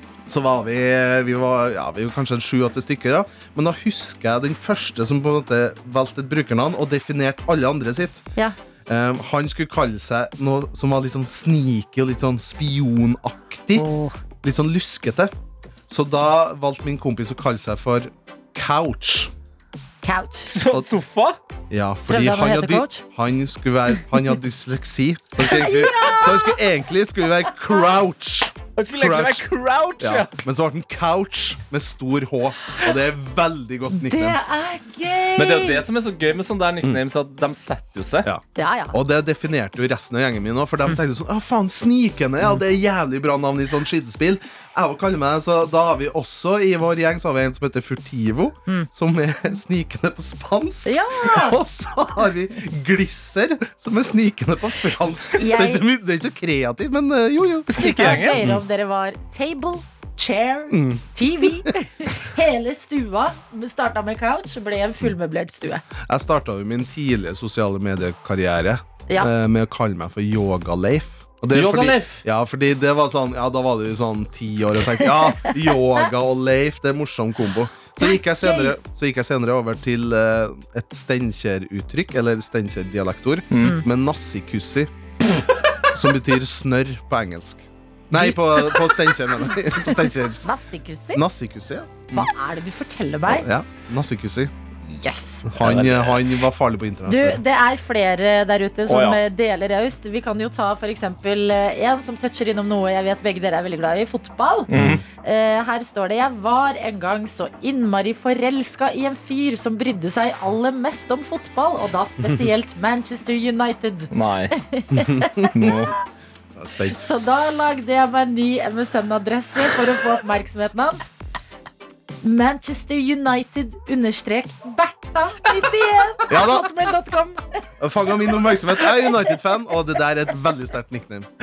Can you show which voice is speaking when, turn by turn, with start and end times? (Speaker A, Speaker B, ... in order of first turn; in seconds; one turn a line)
Speaker A: 0.2-8.2
Speaker A: 8.9-13.8
Speaker B: 13.7-14.2
Speaker A: 14.4-15.3
Speaker A: 15.9-19.3
Speaker B: 20.0-20.5
Speaker C: 20.5-21.4
Speaker A: 21.7-29.4
Speaker B: 22.1-23.0
Speaker B: 25.4-26.6
Speaker C: 28.8-30.3
Speaker A: 30.0-34.4
Speaker B: 33.9-35.8
Speaker C: 35.4-38.3
Speaker A: 38.2-58.6
Speaker B: 38.5-39.0
Speaker B: 50.9-51.6
Speaker B: 55.4-55.8
Speaker C: 57.7-58.4
Speaker B: 57.8-65.8
Speaker A: 60.7-61.7
Speaker A: 66.0-84.9
Speaker C: 71.5-72.2
Speaker B: 75.0-76.0
Speaker B: 78.0-78.7
Speaker C: 83.5-83.8
Speaker A: 85.9-90.5
Speaker B: 90.4-91.2
Speaker A: 91.1-92.3
Speaker B: 92.1-93.5
Speaker A: 93.3-94.5
Speaker B: 94.9-95.5
Speaker A: 95.5-97.4
Speaker C: 95.5-96.2
Speaker B: 97.0-104.7
Speaker C: 98.9-99.2
Speaker C: 104.7-105.0
Speaker A: 104.7-105.0
Speaker B: 105.2-115.7
Speaker C: 114.1-114.5
Speaker A: 114.9-115.5
Speaker C: 115.5-115.9
Speaker A: 116.5-117.0
Speaker B: 116.9-121.0
Speaker B: 122.2-127.4
Speaker A: 126.3-126.7
Speaker A: 127.8-131.3